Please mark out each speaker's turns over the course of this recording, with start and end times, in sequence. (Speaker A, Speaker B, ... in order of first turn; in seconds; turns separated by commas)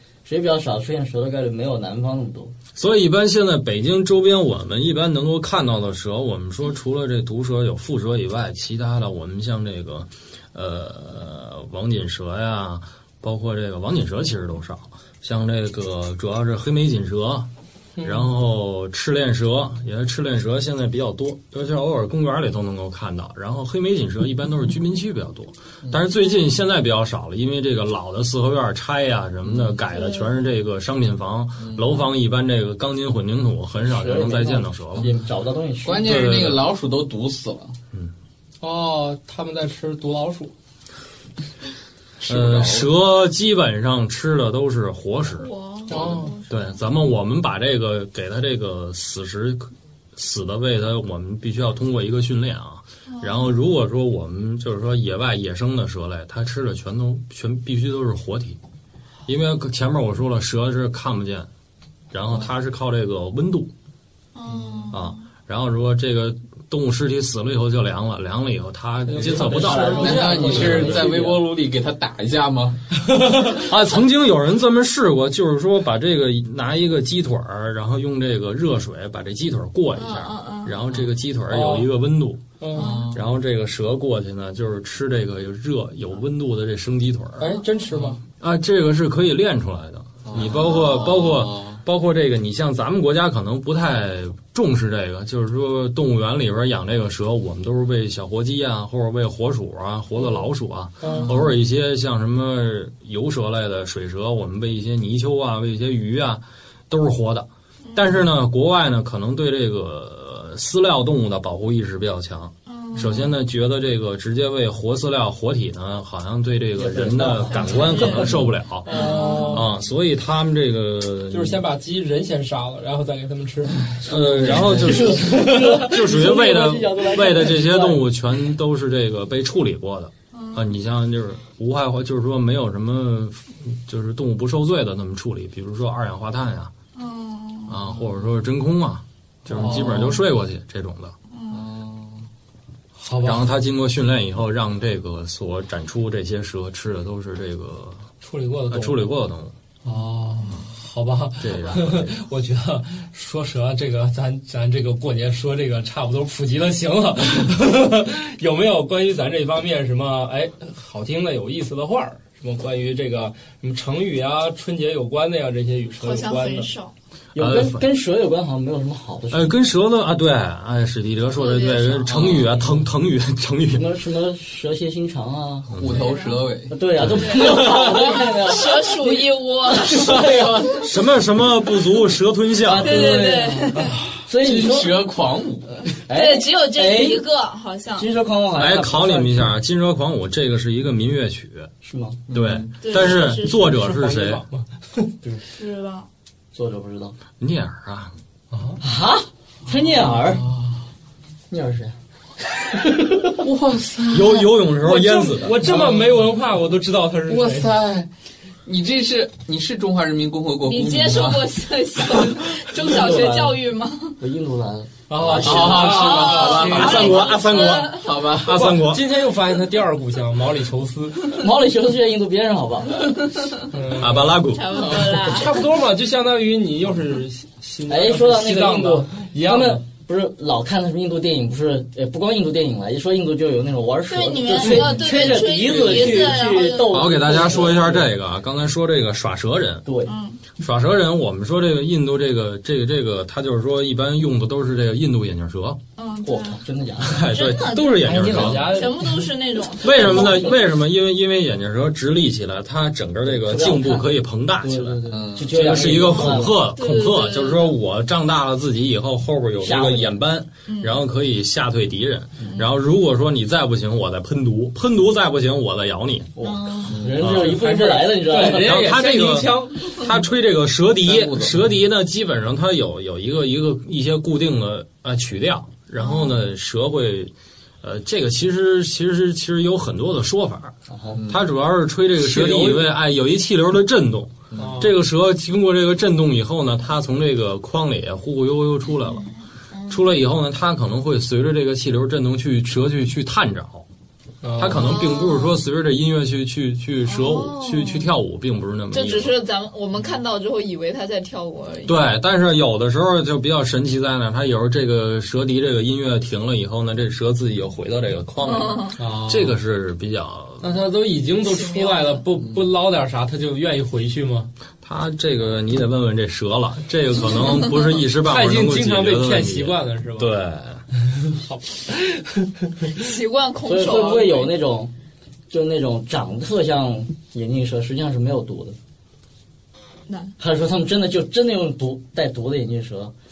Speaker A: 0.2-2.5, Speaker B: 2.8-17.5, Speaker C: 18.0-18.3, Speaker B: 18.0-35.1, Speaker D: 29.4-29.8, Speaker E: 29.9-30.3, Speaker D: 31.6-32.0, Speaker A: 33.8-36.2, Speaker D: 35.8-37.8, Speaker B: 36.0-36.7, Speaker C: 38.6-40.5, Speaker D: 42.2-42.9, Speaker B: 42.3-58.6, Speaker E: 45.4-46.8, Speaker C: 45.9-46.3, Speaker D: 45.9-46.2, Speaker E: 53.1-53.6, Speaker B: 59.3-61.5, Speaker B: 62.1-63.7, Speaker E: 64.3-65.2, Speaker D: 64.5-64.9, Speaker B: 64.9-71.0, Speaker C: 69.1-71.0, Speaker A: 69.2-71.5, Speaker D: 70.0-72.8, Speaker C: 73.1-73.6, Speaker B: 73.6-82.4, Speaker E: 80.0-80.8, Speaker C: 81.5-81.9, Speaker C: 82.6-83.0, Speaker E: 82.8-83.2, Speaker D: 82.8-83.2, Speaker B: 83.1-87.6, Speaker C: 87.4-88.2, Speaker B: 88.4-121.6, Speaker D: 90.3-91.8, Speaker C: 101.0-101.3, Speaker E: 101.1-101.3, Speaker E: 112.7-113.3, Speaker A: 116.7-118.4, Speaker E: 117.5-118.3, Speaker C: 118.9-119.7, Speaker E: 118.9-119.7, Speaker A: 118.9-119.2, Speaker C: 121.3-126.0, Speaker B: 124.0-136.7, Speaker A: 124.4-128.0, Speaker E: 130.3-130.7, Speaker E: 136.9-138.0, Speaker B: 137.7-141.2, Speaker C: 139.5-140.2, Speaker E: 141.3-141.7, Speaker D: 141.5-142.3, Speaker C: 143.0-143.5, Speaker B: 143.2-148.1, Speaker C: 148.2-149.1, Speaker B: 148.7-149.5, Speaker C: 149.8-166.7, Speaker B: 151.4-152.1, Speaker E: 166.0-166.9, Speaker A: 167.3-169.6, Speaker B: 167.4-167.9, Speaker B: 169.3-173.9, Speaker E: 171.4-172.2, Speaker D: 172.1-172.5, Speaker A: 173.7-175.7, Speaker B: 175.7-176.1, Speaker D: 175.8-176.9, Speaker E: 175.8-176.4, Speaker A: 176.7-180.8, Speaker B: 177.0-177.4, Speaker E: 177.1-180.6, Speaker D: 180.1-180.6, Speaker B: 180.8-183.2, Speaker A: 182.6-185.0, Speaker E: 182.8-183.9, Speaker D: 184.4-185.9, Speaker A: 186.1-187.3, Speaker E: 186.1-188.1, Speaker A: 188.0-189.4, Speaker B: 188.6-191.7, Speaker A: 191.8-192.2, Speaker D: 192.3-192.9, Speaker B: 192.3-194.4, Speaker E: 192.8-193.7, Speaker C: 193.4-195.1, Speaker E: 195.5-196.1, Speaker A: 196.5-197.2, Speaker B: 197.4-198.1, Speaker C: 198.5-198.8, Speaker A: 198.8-200.5, Speaker D: 199.9-200.8, Speaker A: 201.5-202.0, Speaker A: 202.8-203.3, Speaker D: 203.4-204.4, Speaker B: 204.1-205.8, Speaker C: 204.8-207.7, Speaker D: 205.7-206.2, Speaker D: 207.3-208.1, Speaker D: 208.7-211.5, Speaker E: 210.7-214.2, Speaker A: 212.8-213.6, Speaker A: 214.2-215.7, Speaker C: 215.1-217.2, Speaker D: 215.2-217.2, Speaker E: 215.7-218.2, Speaker B: 216.4-219.1, Speaker D: 217.8-218.7, Speaker C: 218.5-221.3, Speaker A: 221.3-223.1, Speaker C: 223.7-224.4, Speaker B: 223.9-224.8, Speaker E: 224.5-225.6, Speaker C: 225.2-229.8, Speaker A: 227.9-238.1, Speaker E: 234.1-237.2, Speaker C: 234.6-236.4, Speaker B: 236.9-239.8, Speaker A: 239.8-240.2, Speaker E: 240.1-240.4, Speaker B: 240.6-245.8, Speaker E: 246.0-246.6, Speaker A: 246.2-247.3, Speaker B: 247.0-248.8, Speaker E: 247.2-250.6, Speaker C: 248.0-249.3, Speaker B: 249.8-266.3, Speaker A: 250.0-250.5, Speaker A: 253.3-256.6, Speaker D: 255.1-255.7, Speaker E: 256.5-257.8, Speaker A: 259.6-260.2, Speaker E: 260.7-261.0, Speaker A: 266.4-268.9, Speaker E: 266.4-267.0, Speaker D: 266.9-267.3, Speaker B: 267.2-267.6, Speaker C: 267.2-270.1, Speaker B: 268.3-280.8, Speaker D: 271.0-271.6, Speaker E: 276.0-276.4, Speaker A: 280.9-281.2, Speaker D: 281.1-281.4, Speaker B: 281.3-289.3, Speaker C: 282.2-282.9, Speaker D: 284.5-284.9, Speaker C: 284.6-284.9, Speaker E: 289.1-290.0, Speaker B: 289.9-293.9, Speaker C: 294.4-294.9, Speaker B: 294.6-299.4, Speaker E: 294.7-295.6, Speaker E: 297.1-298.1, Speaker E: 298.9-302.1, Speaker B: 301.9-310.7, Speaker E: 308.4-309.0, Speaker C: 309.0-309.6, Speaker C: 310.6-314.5, Speaker E: 311.4-312.2, Speaker D: 312.4-312.7, Speaker B: 314.8-320.9, Speaker C: 318.2-320.3, Speaker C: 321.3-322.5, Speaker E: 322.9-324.6, Speaker A: 323.6-324.9, Speaker A: 325.5-328.8, Speaker E: 330.1-330.3, Speaker A: 330.4-333.1